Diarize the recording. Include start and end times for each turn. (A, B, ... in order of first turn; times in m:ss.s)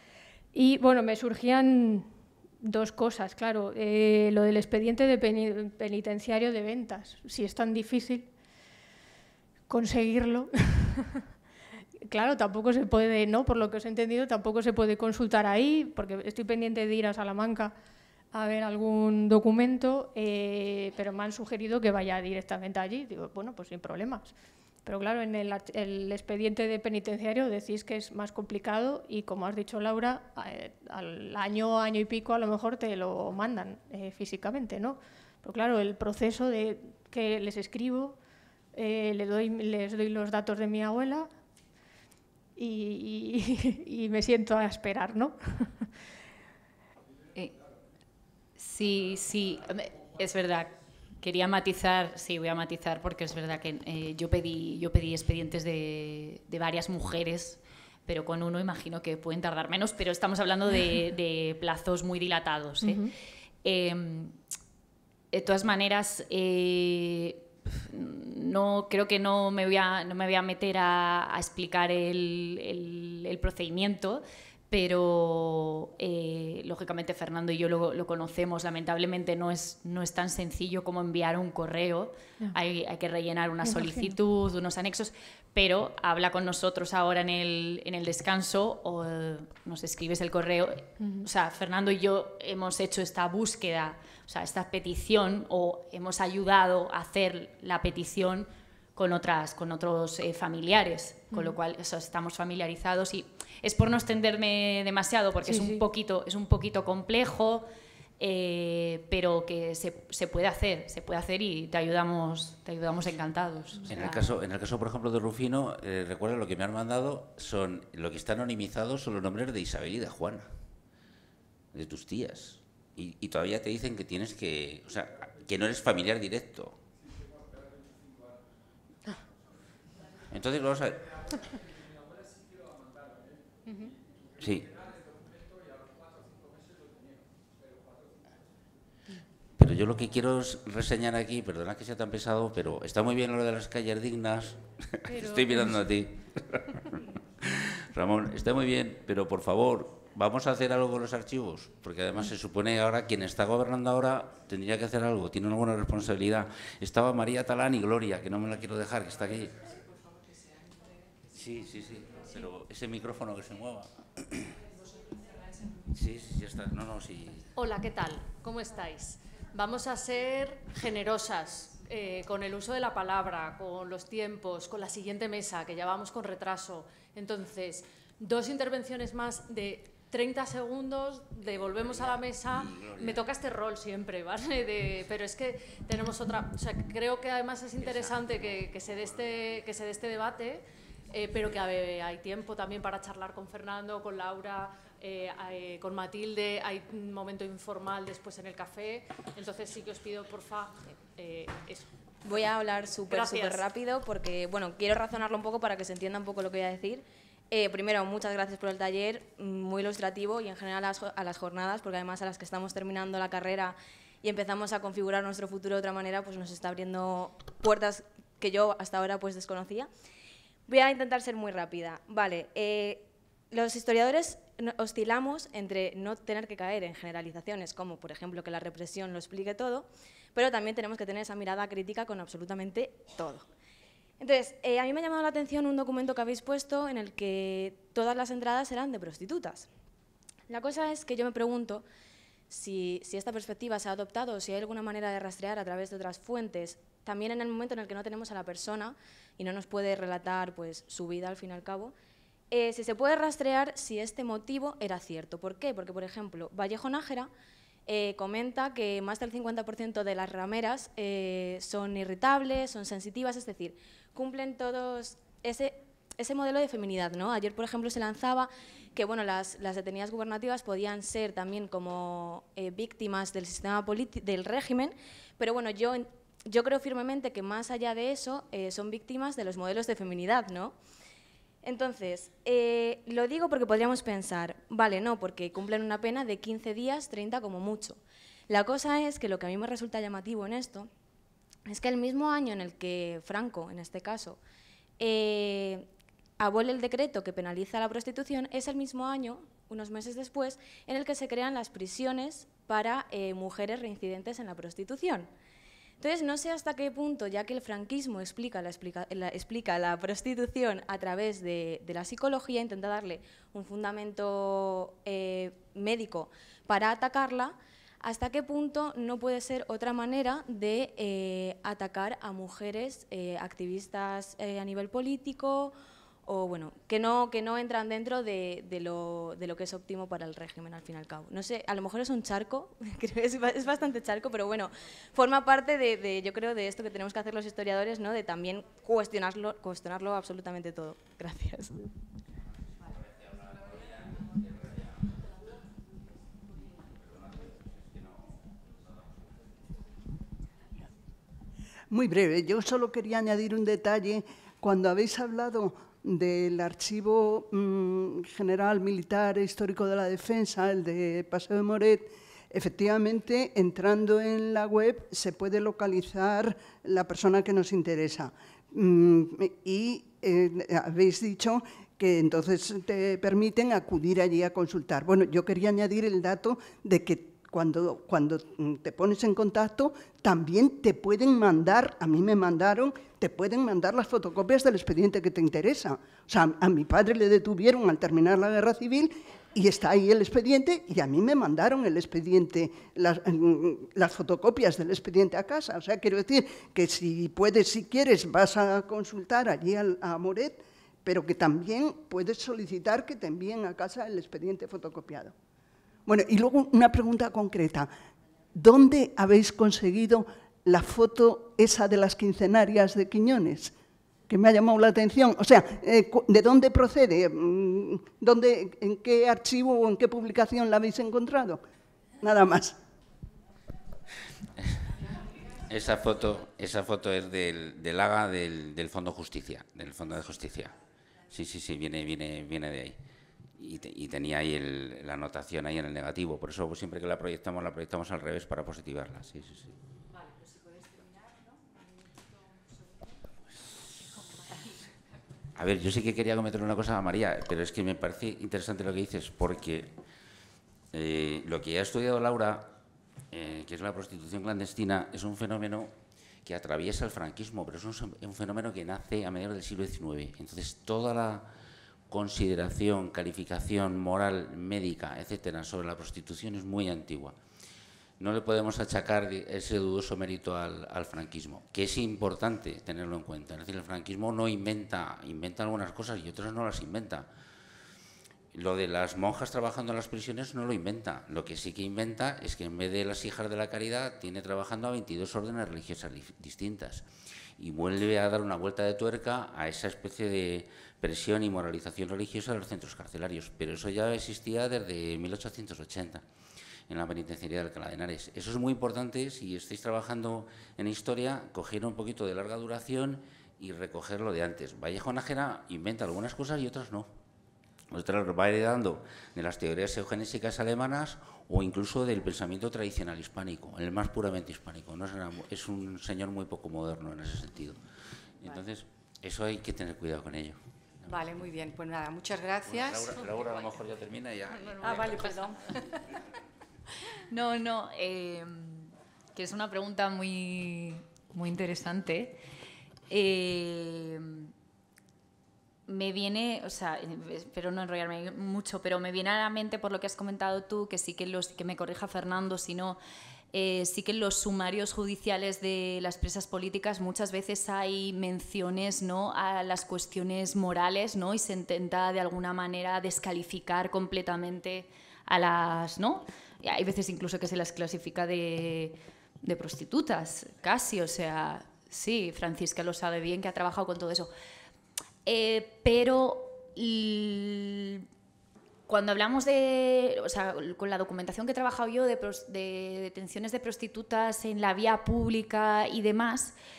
0:00.5-0:02.1 A
0:02.6-0:08.3 A
0:09.7-0:11.2 A
0:12.0-0:17.8 A
0:18.3-0:38.2 A
0:38.7-0:41.3 A
0:42.6-0:45.9 A
0:48.6-1:03.1 B
1:03.6-1:04.4 B
1:05.3-1:47.7 B
1:23.6-1:24.2 A
1:31.0-1:31.3 A
1:41.3-1:41.6 A
1:45.4-1:45.8 A
1:48.2-1:54.4 B
1:53.9-2:00.5 C
2:01.7-2:06.8 C
2:10.3-2:11.3 C
2:13.7-2:13.9 A
2:14.4-2:14.8 C
2:19.6-2:39.6 C
2:25.1-2:25.9 A
2:39.4-2:42.4 D
2:41.3-2:44.6 C
2:44.7-2:45.6 D
2:45.9-2:47.5 C
2:47.6-3:21.9 E
3:01.5-3:03.3 C
3:07.8-3:09.5 C
3:22.2-3:39.9 F
3:23.1-3:23.6 E
3:40.7-3:53.5 F
3:54.2-3:59.7 F
4:00.5-4:01.8 F
4:02.5-4:11.9 F
4:12.5-4:17.3 F
4:17.9-4:40.8 F
4:41.6-4:50.9 F
4:51.7-4:54.4 F
4:55.0-4:55.9 F
4:56.4-5:05.3 F
5:06.0-5:25.7 F
5:26.3-5:41.9 F
5:42.8-5:45.0 C
5:46.6-5:48.3 C
5:51.9-6:45.3 G
6:46.1-6:47.9 G
6:48.5-6:53.7 G
6:54.3-7:01.6 G
7:02.2-7:02.8 G
7:05.5-7:10.8 C
7:11.3-7:13.0 C
7:13.6-7:19.7 C
7:23.6-7:24.1 C
7:25.6-7:29.9 C
7:30.9-7:32.7 C
7:33.3-7:35.9 C
7:36.4-7:41.5 C
7:42.1-7:47.4 C
7:48.2-7:57.3 C
7:58.5-8:07.1 C
8:07.6-8:16.2 C
8:16.9-8:27.1 C
8:27.9-8:37.8 C
8:38.4-8:40.6 C
8:41.0-8:43.8 D
8:42.7-8:45.4 C
8:44.7-8:45.9 D
8:47.3-8:52.4 B
8:53.1-8:54.5 B
8:55.9-9:03.0 B
9:03.5-9:24.3 B
9:25.2-9:28.1 B
9:28.9-9:36.5 B